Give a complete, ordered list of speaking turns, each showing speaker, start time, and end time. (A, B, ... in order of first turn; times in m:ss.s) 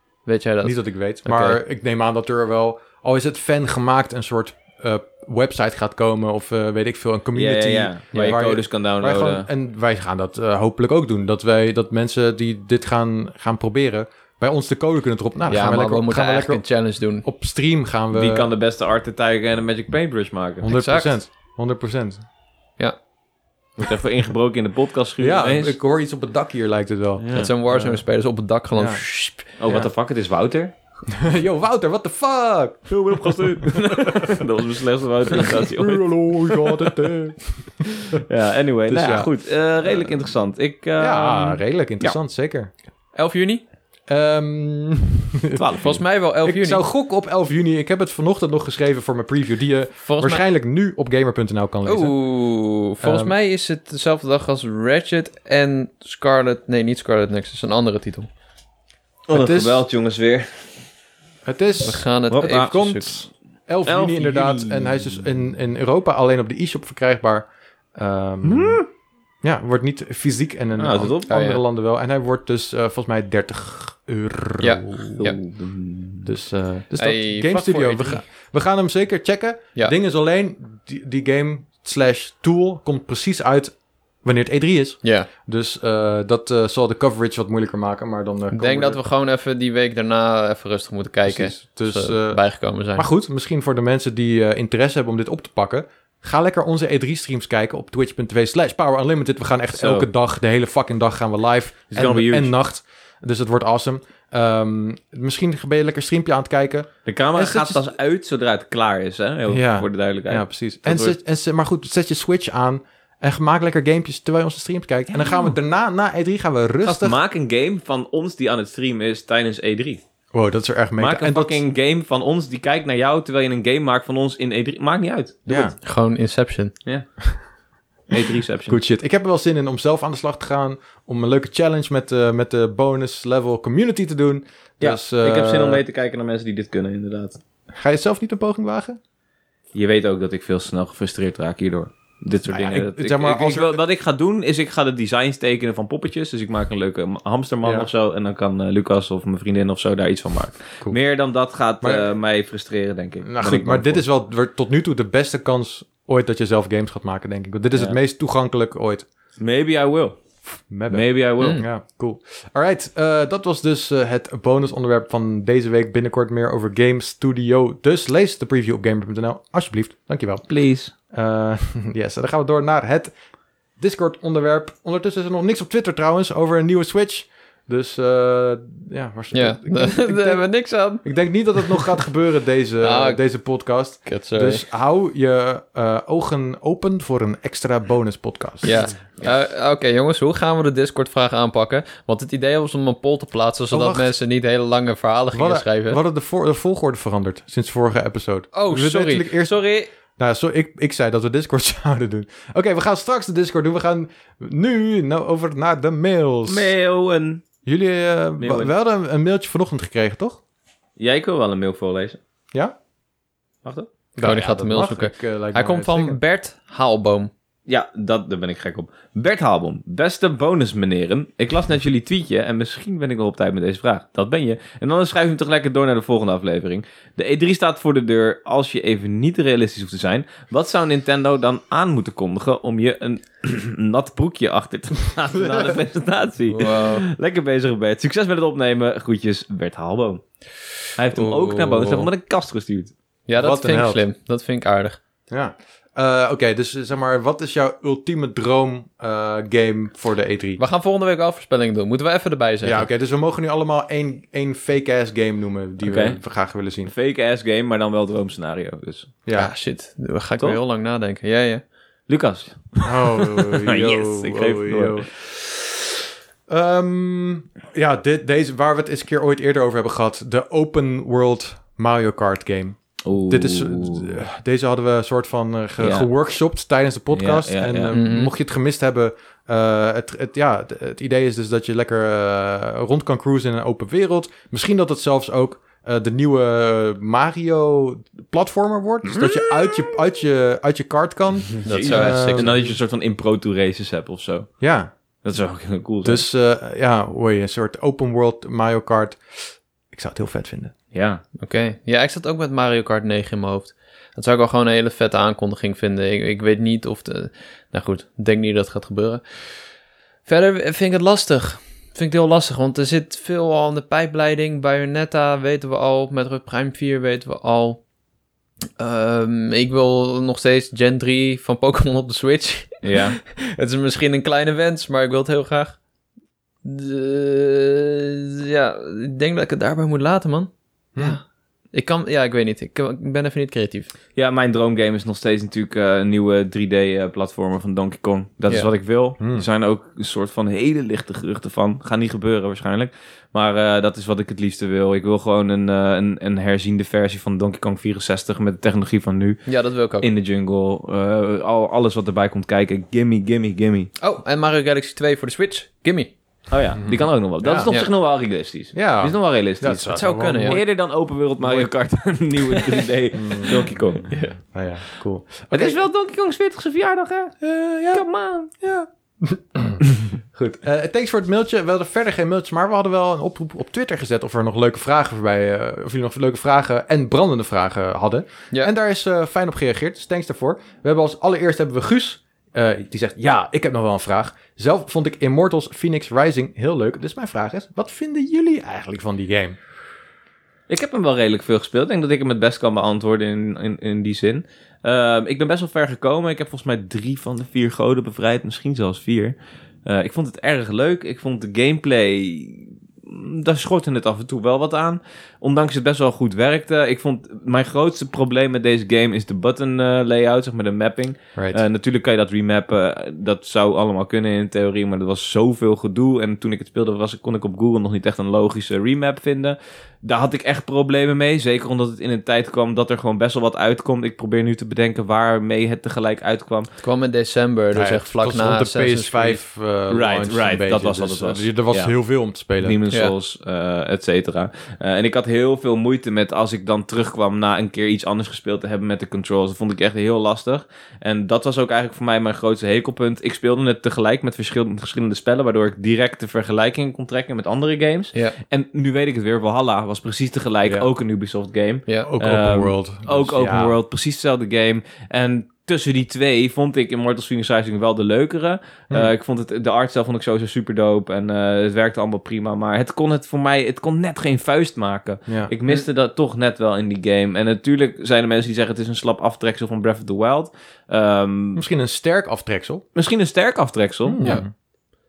0:00.2-0:01.6 A
0:00.6-0:16.6 B
0:07.3-0:09.5 C
0:08.1-0:08.4 A
0:15.5-0:17.2 A
0:17.2-0:18.5 B
0:18.1-0:20.7 C
0:20.6-0:22.2 B
0:20.7-0:21.1 A
0:23.8-0:25.8 C
0:25.2-0:27.8 B
0:27.2-0:27.5 C
0:27.3-0:29.5 A
0:28.8-0:29.0 B
0:29.6-0:30.7 C
0:31.1-0:34.4 B
0:32.9-0:37.1 C
0:35.3-0:38.2 B
0:38.0-0:42.2 C
0:38.9-0:40.2 B
0:41.0-0:42.7 B
0:43.1-0:43.6 A
0:44.1-0:45.9 B
0:45.6-0:46.0 C
0:45.8-0:46.8 A
0:46.4-0:52.2 B
0:50.0-0:50.4 A
0:51.8-0:58.3 A
0:53.0-0:53.3 B
0:59.3-1:00.8 C
0:59.3-0:59.8 B
1:01.4-1:08.8 B
1:01.8-1:03.2 A
1:02.3-1:03.1 C
1:03.8-1:05.3 C
1:08.4-1:08.8 C
1:09.4-1:15.2 B
1:10.8-1:11.3 C
1:11.3-1:11.6 A
1:14.6-1:15.4 A
1:15.2-1:16.3 C
1:16.2-1:29.0 B
1:17.0-1:18.2 A
1:25.0-1:25.3 A
1:28.5-1:33.1 A
1:31.2-1:32.4 B
1:32.9-1:47.8 B
1:39.7-1:40.1 C
1:41.9-1:42.5 C
1:47.0-1:51.2 C
1:49.5-1:57.2 B
1:55.1-1:55.5 C
1:56.8-2:00.0 C
2:00.3-2:01.6 B
2:01.0-2:05.7 C
2:05.5-2:05.8 B
2:05.8-2:06.7 A
2:08.1-2:08.8 C
2:08.7-2:15.8 B
2:14.8-2:17.4 C
2:17.7-2:19.0 B
2:19.7-2:34.0 C
2:22.5-2:23.8 B
2:27.6-2:27.9 B
2:31.8-2:32.1 B
2:33.2-2:39.0 B
2:39.4-2:40.2 C
2:40.7-2:50.4 B
2:40.9-2:41.6 C
2:41.4-2:41.6 A
2:50.5-2:50.9 C
2:51.1-2:53.1 B
2:53.8-3:08.8 B
2:59.3-3:01.9 A
3:02.8-3:03.2 A
3:04.0-3:04.6 A
3:08.6-3:16.0 A
3:13.7-3:14.1 B
3:15.3-3:19.6 B
3:18.5-3:19.9 A
3:20.2-3:26.7 B
3:26.5-3:27.4 C
3:27.6-3:30.4 B
3:28.4-3:28.7 C
3:31.0-3:32.2 C
3:34.1-3:36.2 B
3:34.2-3:37.3 A
3:37.7-4:00.2 C
3:56.5-3:57.0 A
4:01.0-4:02.9 C
4:01.1-4:02.1 A
4:03.3-4:05.0 A
4:03.4-4:04.0 B
4:05.3-4:10.6 B
4:10.6-4:12.9 A
4:12.6-4:16.9 B
4:15.8-4:16.2 C
4:16.8-4:19.1 C
4:19.2-4:19.5 B
4:19.3-4:21.6 A
4:22.1-4:25.0 C
4:22.8-4:25.4 B
4:26.5-4:52.7 B
4:33.0-4:34.2 C
4:35.8-4:36.1 C
4:37.1-4:37.9 C
4:37.9-4:38.3 A
4:49.0-4:49.9 C
4:51.6-4:54.5 C
4:51.6-4:52.6 A
4:54.6-4:54.9 B
4:55.2-4:56.2 C
4:56.0-5:00.7 B
5:00.9-5:01.2 C
5:01.4-5:09.2 A
5:10.2-5:17.8 A
5:18.8-5:25.8 A
5:22.8-5:23.2 C
5:26.6-5:33.9 A
5:34.2-5:49.4 C
5:39.2-5:39.4 B
5:49.5-5:50.1 A
5:50.0-5:53.9 C
5:54.0-5:56.1 A
5:56.5-6:04.1 C
5:56.8-5:57.7 B
5:58.7-6:00.6 B
5:59.9-6:00.6 A
6:01.4-6:01.7 B
6:03.1-6:03.7 B
6:04.1-6:04.4 A
6:04.4-6:05.8 B
6:05.5-6:08.5 C
6:07.4-6:08.0 B
6:08.6-6:09.8 B
6:10.6-6:29.6 B
6:30.7-6:39.3 C
6:39.8-7:06.7 C
6:51.4-6:51.6 B
7:06.8-7:09.4 A
7:07.7-7:12.8 B
7:09.9-7:51.6 C
7:32.0-7:33.8 B
7:45.3-7:45.5 B
7:51.6-7:52.8 B
7:52.9-7:54.4 C
7:54.0-7:54.5 B